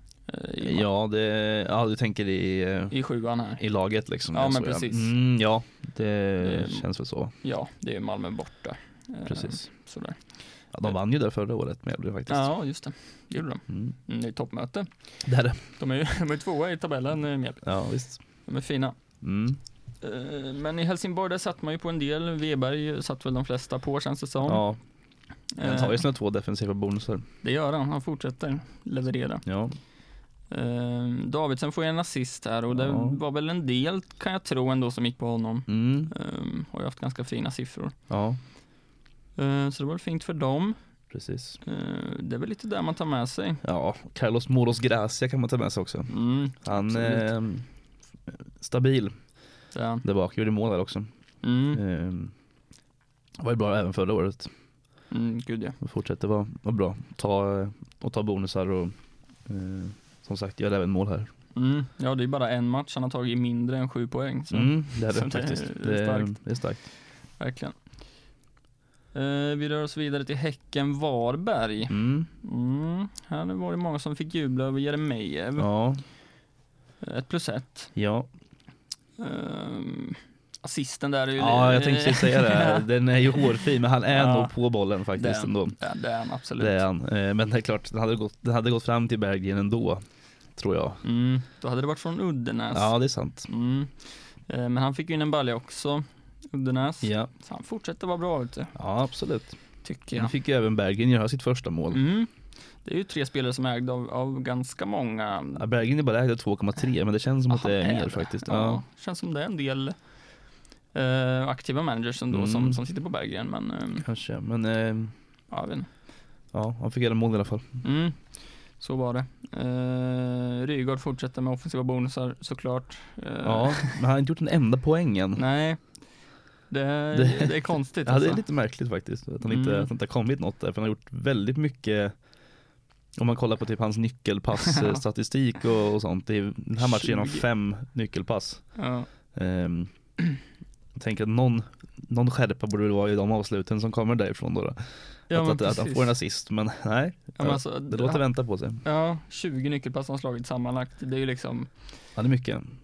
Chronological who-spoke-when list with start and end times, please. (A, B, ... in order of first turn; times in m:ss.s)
0:00.3-0:00.9 A
0:00.6-0:03.0 B
0:02.9-0:03.6 A
0:03.6-0:07.3 B
0:04.3-0:05.1 A
0:06.4-0:06.9 A
0:07.4-0:10.2 A
0:09.3-0:09.6 B
0:10.7-0:12.5 B
0:12.3-0:15.2 A
0:15.2-0:15.6 B
0:15.8-0:17.8 A
0:17.6-0:18.2 B
0:18.4-0:19.0 A
0:19.2-0:19.6 B
0:20.0-0:24.6 A
0:24.5-0:24.8 B
0:25.5-0:26.0 A
0:25.6-0:27.2 B
0:27.4-0:29.5 A
0:29.5-0:29.8 B
0:30.5-0:38.0 A
0:32.7-0:33.2 B
0:35.7-0:36.1 B
0:38.1-0:38.4 B
0:39.4-0:40.8 A
0:41.1-0:41.6 B
0:41.6-0:43.6 A
0:43.6-0:47.7 B
0:46.1-0:47.3 A
0:48.3-0:49.2 B
0:49.7-0:50.0 A
0:50.0-0:51.1 B
0:51.4-0:51.8 A
0:51.7-0:52.3 B
0:53.4-0:54.5 B
0:55.1-0:55.8 A
0:55.8-0:59.0 B
0:59.5-1:01.3 B
1:01.6-1:06.4 A
1:04.5-1:06.8 B
1:07.4-1:07.8 A
1:09.1-1:15.7 A
1:11.9-1:12.3 B
1:15.6-1:16.0 B
1:17.0-1:17.9 A
1:18.0-1:18.3 B
1:19.2-1:23.4 A
1:21.4-1:25.8 B
1:24.1-1:24.5 A
1:25.2-1:26.8 A
1:26.6-1:30.0 B
1:30.6-1:31.0 B
1:31.0-1:33.0 A
1:32.7-1:33.5 B
1:33.5-1:38.8 A
1:37.0-1:37.3 B
1:38.8-1:39.6 B
1:39.8-1:40.3 A
1:40.1-1:42.0 B
1:41.9-1:45.6 A
1:45.6-1:48.8 B
1:47.5-1:50.1 A
1:50.9-1:54.1 A
1:52.3-1:52.8 B
1:54.0-1:55.1 B
1:55.5-1:55.9 A
1:56.5-1:57.8 B
1:57.8-2:04.0 A
2:03.4-2:05.4 B
2:05.4-2:05.9 A
2:06.7-2:08.4 A
2:07.1-2:12.2 B
2:09.4-2:09.9 A
2:13.2-2:18.8 B
2:14.7-2:15.0 A
2:16.8-2:17.4 A
2:18.8-2:19.1 A
2:19.3-2:19.9 B
2:21.0-2:28.8 B
2:25.3-2:26.2 A
2:27.4-2:28.2 A
2:28.8-2:31.8 A
2:32.2-2:32.7 B